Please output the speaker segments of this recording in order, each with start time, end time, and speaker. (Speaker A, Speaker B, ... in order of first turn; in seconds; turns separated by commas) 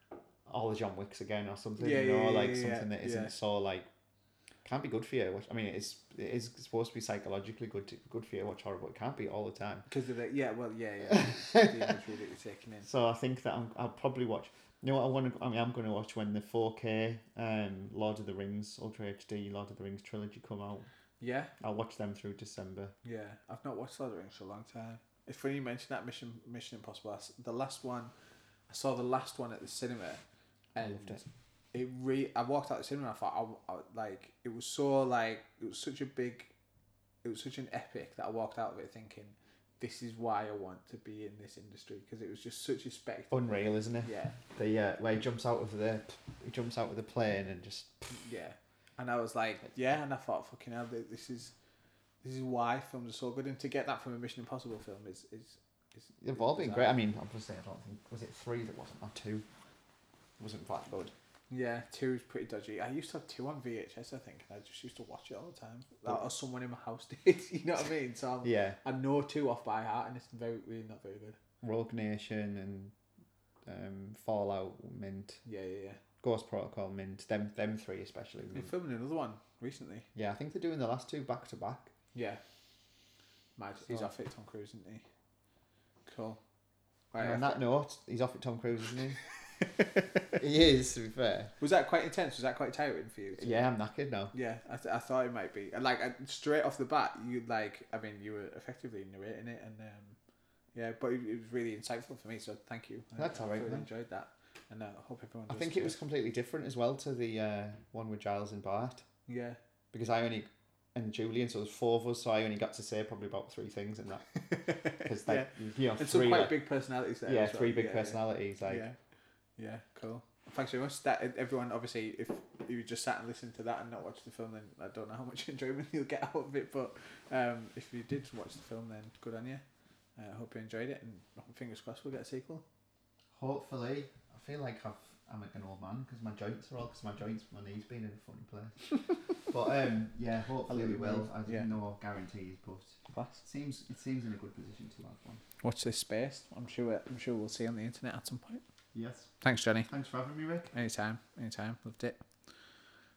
Speaker A: 0.5-3.9, Speaker B: 1.8-3.3, Speaker A: 4.6-9.9, Speaker B: 9.9-12.9, Speaker A: 11.1-11.9, Speaker A: 12.8-20.9, Speaker B: 21.2-21.5, Speaker A: 21.6-22.9, Speaker B: 23.0-28.1, Speaker B: 28.7-30.2, Speaker B: 30.7-36.5, Speaker A: 30.8-31.2, Speaker B: 37.2-44.4, Speaker A: 43.3-48.1, Speaker B: 48.1-51.5, Speaker B: 52.2-57.0, Speaker A: 56.2-59.4, Speaker A: 60.4-61.1, Speaker B: 61.5-71.4, Speaker A: 68.4-68.8, Speaker A: 71.6-72.9, Speaker A: 73.7-75.4, Speaker B: 75.5-76.0, Speaker A: 76.2-78.7, Speaker B: 78.5-80.1, Speaker A: 80.1-81.9, Speaker B: 82.1-82.4, Speaker B: 83.6-85.0, Speaker B: 86.0-86.4, Speaker B: 87.1-87.6, Speaker A: 87.2-89.2, Speaker B: 89.8-90.0, Speaker A: 90.4-91.5, Speaker B: 91.6-93.7, Speaker A: 93.4-94.3, Speaker B: 94.3-100.2, Speaker B: 100.7-106.0, Speaker A: 103.2-103.9, Speaker A: 105.5-109.1, Speaker B: 109.3-109.6, Speaker A: 109.9-116.6, Speaker B: 114.4-119.0, Speaker A: 117.2-118.9, Speaker B: 119.6-129.6, Speaker B: 130.2-132.6, Speaker A: 133.3-145.4, Speaker B: 140.7-141.7, Speaker B: 143.1-143.4, Speaker B: 145.6-148.6, Speaker A: 148.9-149.3, Speaker B: 149.4-149.9, Speaker A: 149.9-150.7, Speaker B: 150.7-152.2